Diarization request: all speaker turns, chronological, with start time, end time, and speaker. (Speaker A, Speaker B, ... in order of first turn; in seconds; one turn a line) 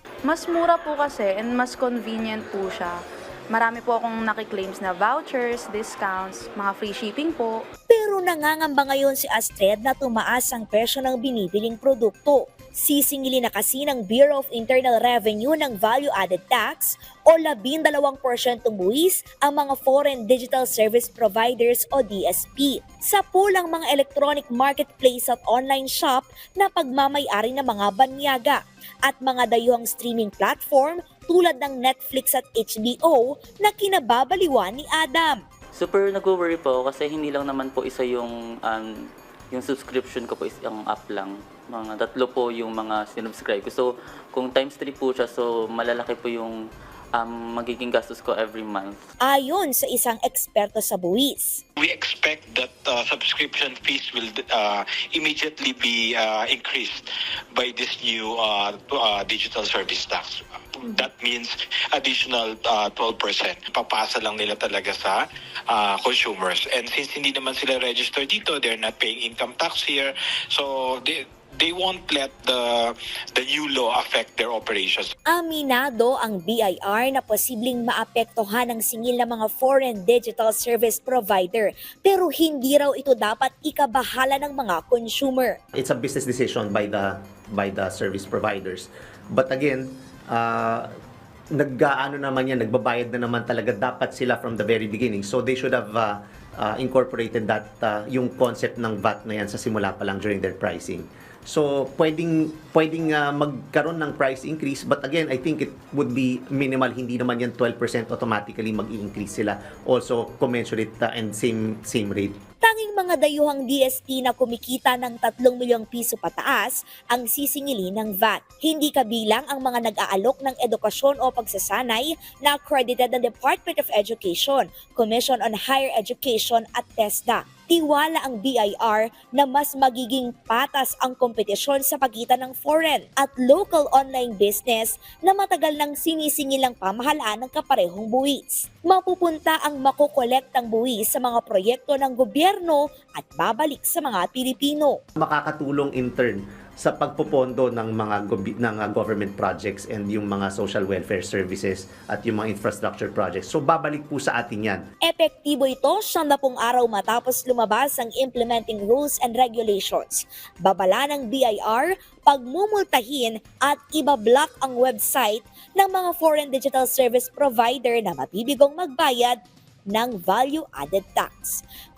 Speaker A: 0.2-3.0
Speaker A: 3.5-7.6
Speaker B: 7.9-35.4
Speaker C: 35.7-38.9
Speaker C: 39.5-46.6
Speaker C: 47.1-49.0
Speaker B: 49.2-51.6
Speaker D: 51.8-75.1
Speaker B: 75.3-85.6
Speaker E: 85.7-90.9
Speaker E: 91.5-112.4
Speaker B: 112.6-145.0
Speaker E: 145.2-154.8
Speaker B: 155.0-169.4
Speaker B: 169.9-171.6